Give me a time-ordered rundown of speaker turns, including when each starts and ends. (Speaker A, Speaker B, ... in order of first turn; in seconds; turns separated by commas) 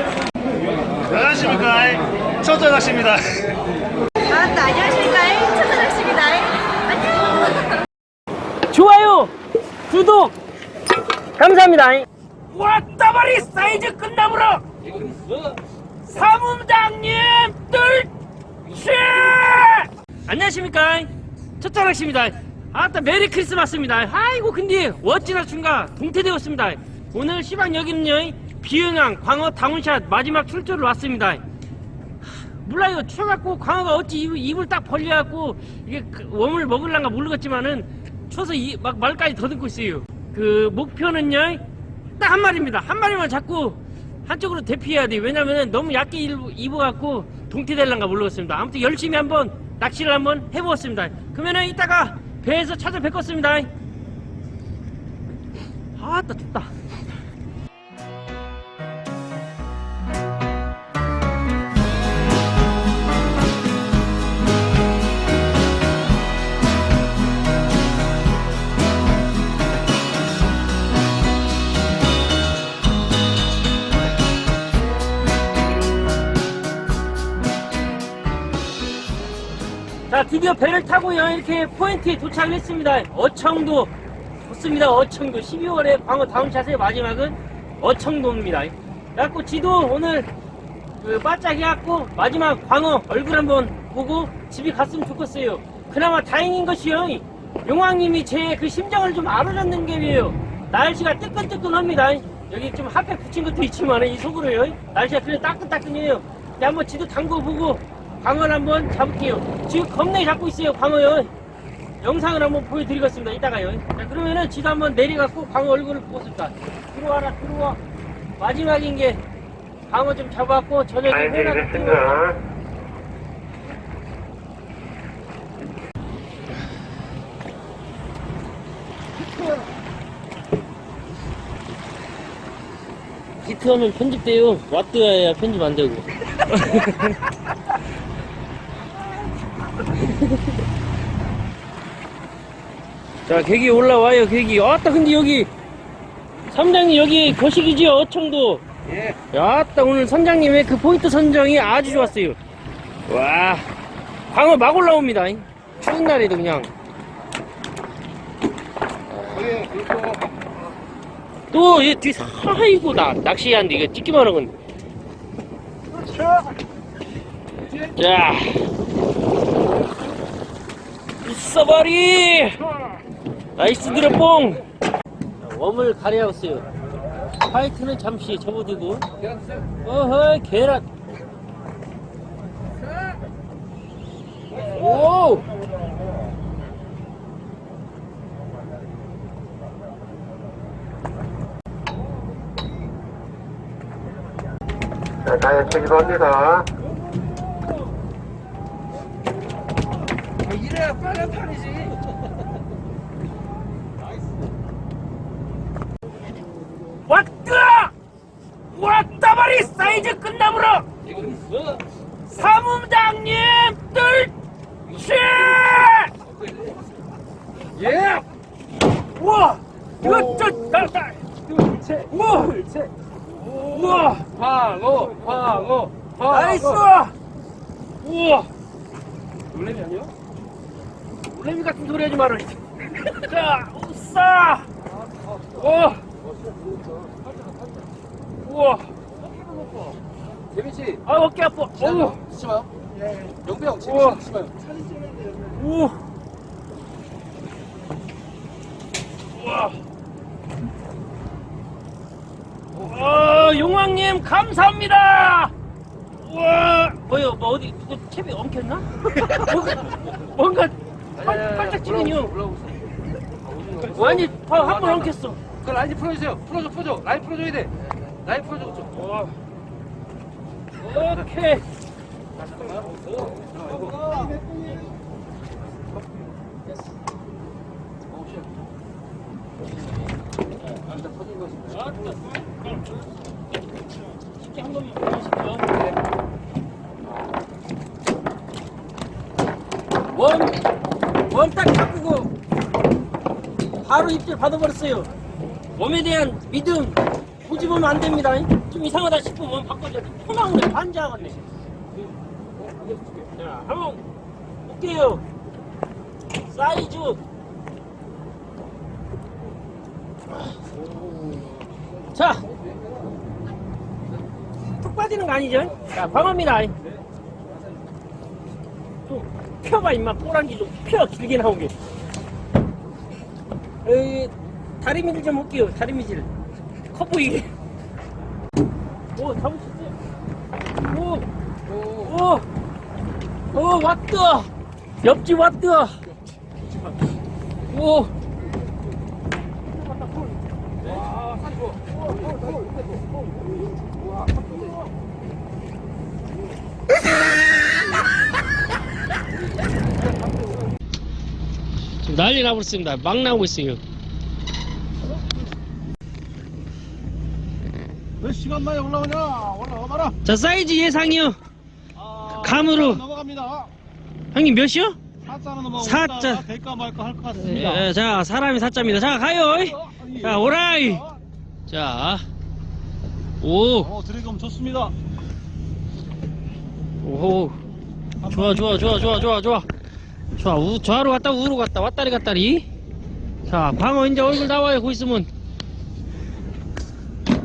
Speaker A: 1.1-1.6, Speaker B: 1.2-3.3, Speaker C: 4.2-7.8, Speaker B: 8.7-9.3, Speaker B: 9.9-10.3, Speaker B: 11.4-14.6, Speaker B: 16.0-18.1, Speaker B: 18.6-31.4, Speaker B: 32.6-41.6, Speaker B: 42.2-53.7, Speaker B: 56.0-56.7, Speaker B: 80.1-83.9, Speaker B: 84.4-90.3, Speaker B: 91.0-111.3, Speaker B: 112.0-117.8, Speaker B: 118.4-119.2, Speaker B: 119.9-122.4, Speaker B: 133.4-137.2, Speaker B: 143.2-145.5, Speaker B: 146.5-148.6, Speaker B: 149.3-152.4, Speaker B: 153.1-153.7, Speaker B: 154.3-156.7, Speaker D: 159.3-160.2, Speaker B: 161.5-164.5, Speaker B: 166.0-166.4, Speaker B: 167.9-168.7, Speaker B: 171.2-172.6, Speaker B: 173.6-174.6, Speaker B: 175.4-176.7, Speaker B: 177.4-179.1, Speaker B: 179.8-180.8, Speaker B: 184.5-185.5, Speaker A: 195.3-196.7, Speaker D: 200.4-202.0, Speaker B: 207.1-207.9, Speaker B: 208.7-210.9, Speaker D: 211.2-211.8, Speaker B: 212.3-214.3, Speaker B: 214.8-216.1, Speaker D: 217.8-218.2, Speaker B: 219.2-222.9, Speaker B: 223.5-224.3, Speaker D: 223.5-226.8, Speaker B: 226.2-227.1, Speaker B: 228.0-228.5, Speaker D: 229.5-230.1, Speaker B: 231.3-234.7, Speaker D: 235.1-235.5, Speaker B: 235.5-236.0, Speaker D: 236.5-237.8, Speaker B: 238.4-238.9, Speaker D: 239.5-239.9, Speaker D: 240.5-241.0, Speaker B: 241.0-242.2, Speaker D: 241.8-245.4, Speaker B: 243.8-244.2, Speaker B: 245.5-246.0, Speaker B: 249.3-249.8, Speaker B: 252.8-255.5, Speaker B: 256.2-262.3, Speaker D: 261.2-262.8, Speaker D: 263.4-265.0, Speaker B: 263.9-265.4, Speaker D: 265.6-268.9, Speaker B: 268.9-269.3, Speaker B: 270.8-271.6, Speaker D: 272.4-274.4, Speaker D: 278.1-278.5, Speaker D: 280.9-281.8, Speaker B: 281.8-282.2, Speaker B: 284.4-285.7, Speaker B: 290.1-290.6, Speaker B: 291.3-292.3, Speaker B: 293.8-295.1, Speaker B: 295.7-301.4, Speaker D: 302.6-303.1, Speaker B: 303.3-304.0, Speaker B: 304.6-305.2, Speaker B: 306.4-307.2, Speaker D: 311.1-311.6, Speaker B: 312.1-312.4, Speaker B: 314.8-316.8, Speaker B: 319.1-321.7, Speaker B: 323.8-326.3, Speaker B: 326.9-327.5, Speaker B: 329.1-329.9, Speaker B: 330.9-331.2, Speaker D: 331.7-332.0, Speaker B: 331.9-332.4, Speaker B: 333.5-334.5, Speaker B: 335.0-336.0, Speaker B: 337.7-338.1, Speaker D: 341.0-341.9, Speaker D: 344.2-344.7, Speaker B: 352.0-353.8, Speaker A: 358.2-359.9, Speaker B: 360.2-361.4, Speaker B: 362.3-363.1, Speaker B: 364.3-365.0, Speaker A: 365.3-365.7, Speaker B: 365.7-366.5, Speaker A: 366.7-367.2, Speaker B: 367.3-371.1, Speaker B: 371.7-372.2, Speaker B: 373.4-374.0, Speaker B: 377.0-377.6, Speaker B: 378.2-379.7, Speaker B: 380.3-382.6, Speaker B: 383.4-385.3